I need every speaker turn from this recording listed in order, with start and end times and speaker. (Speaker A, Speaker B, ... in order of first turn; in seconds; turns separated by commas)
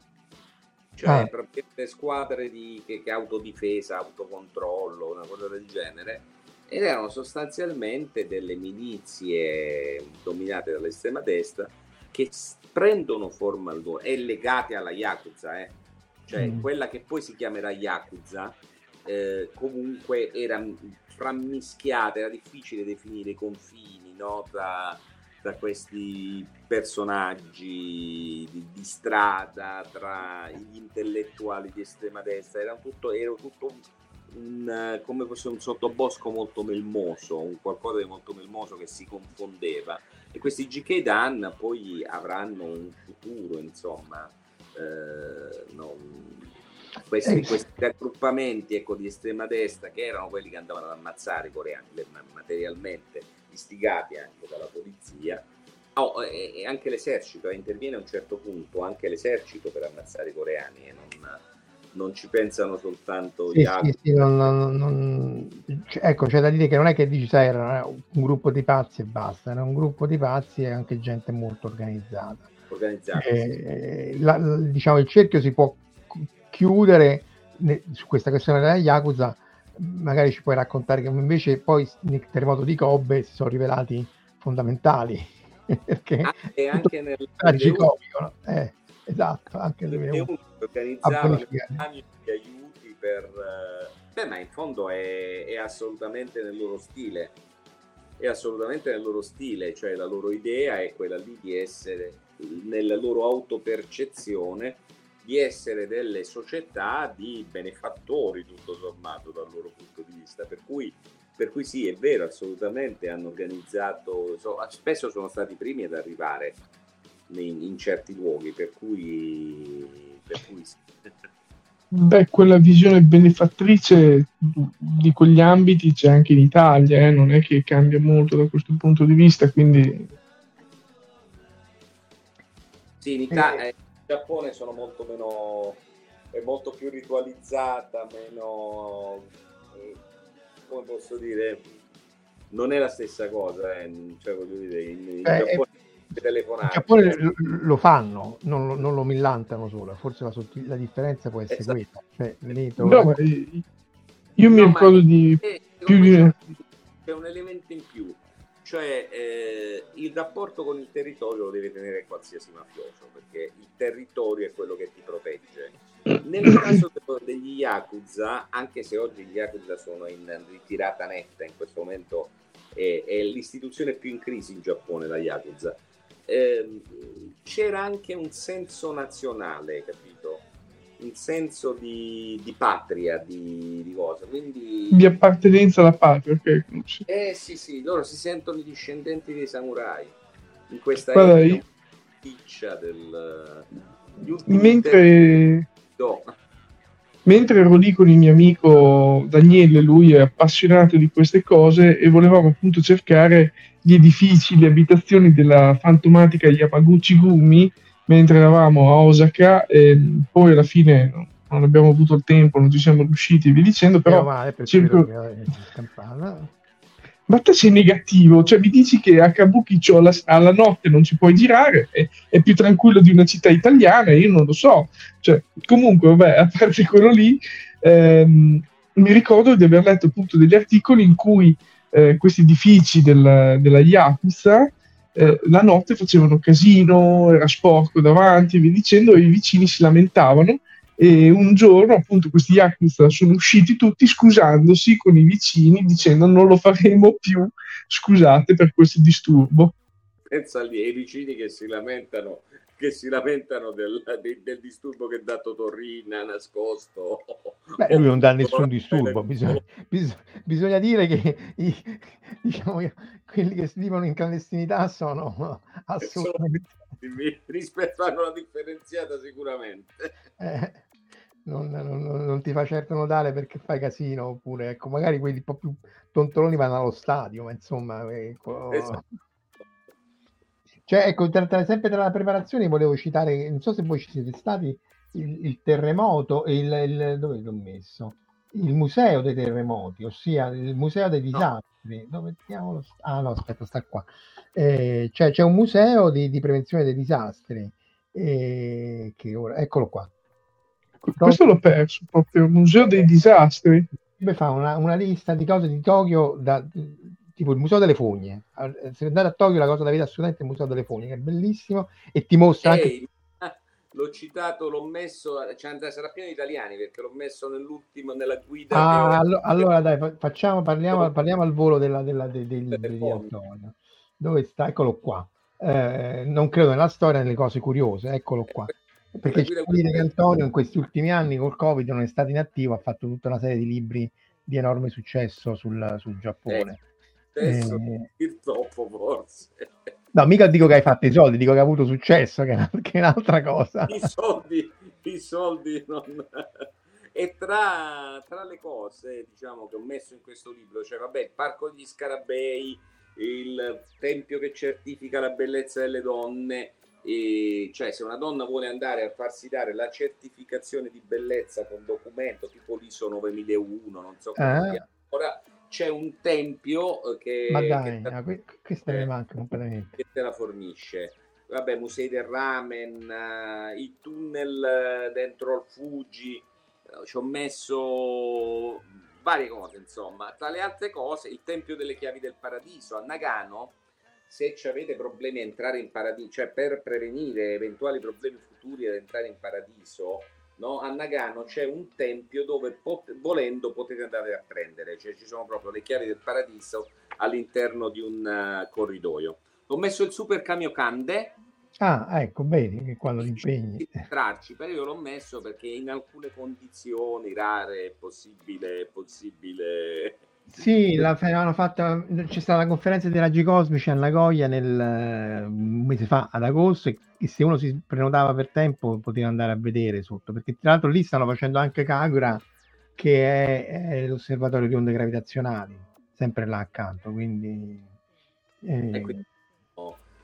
Speaker A: 0.9-46.5, Speaker B: 1.0-1.3, Speaker B: 16.4-16.6, Speaker A: 47.1-61.4, Speaker B: 47.2-47.6, Speaker A: 61.9-64.5, Speaker B: 63.5-72.5, Speaker A: 72.7-73.6, Speaker B: 73.2-90.3, Speaker A: 86.2-87.9, Speaker A: 89.9-97.3, Speaker B: 91.0-91.8, Speaker A: 98.2-116.6, Speaker A: 117.3-121.1, Speaker C: 121.9-130.1, Speaker A: 133.0-135.8, Speaker B: 133.3-133.6, Speaker A: 136.3-140.0, Speaker A: 140.6-141.6, Speaker A: 142.5-147.2, Speaker B: 145.2-145.6, Speaker B: 146.7-153.1, Speaker C: 152.8-153.6, Speaker C: 154.4-156.4, Speaker A: 154.5-180.4, Speaker A: 181.0-185.2, Speaker C: 184.9-187.0, Speaker A: 187.1-190.2, Speaker A: 190.7-191.7, Speaker C: 191.1-191.6, Speaker A: 192.2-195.3, Speaker C: 194.5-195.7, Speaker A: 195.9-196.3, Speaker C: 197.2-215.1, Speaker B: 214.1-216.5, Speaker C: 217.3-249.7, Speaker A: 250.3-259.6, Speaker B: 257.8-266.8, Speaker A: 266.0-266.4, Speaker A: 267.0-270.1, Speaker B: 270.4-270.9, Speaker B: 271.4-279.0, Speaker A: 278.7-279.0, Speaker B: 280.9-300.1, Speaker C: 301.0-303.9, Speaker B: 301.2-301.4, Speaker B: 304.1-312.9, Speaker A: 312.6-319.7, Speaker B: 318.7-336.8, Speaker A: 322.7-323.3, Speaker A: 329.3-330.1, Speaker A: 337.3-339.9, Speaker B: 337.4-338.1, Speaker B: 340.1-344.1, Speaker A: 343.9-368.1, Speaker B: 364.4-364.8, Speaker B: 367.5-369.9, Speaker A: 370.0-383.8, Speaker A: 384.3-401.4, Speaker B: 401.8-403.9, Speaker A: 403.2-410.2, Speaker B: 410.5-422.4, Speaker B: 422.9-427.9, Speaker B: 428.6-429.2, Speaker A: 428.9-429.2, Speaker A: 429.8-430.0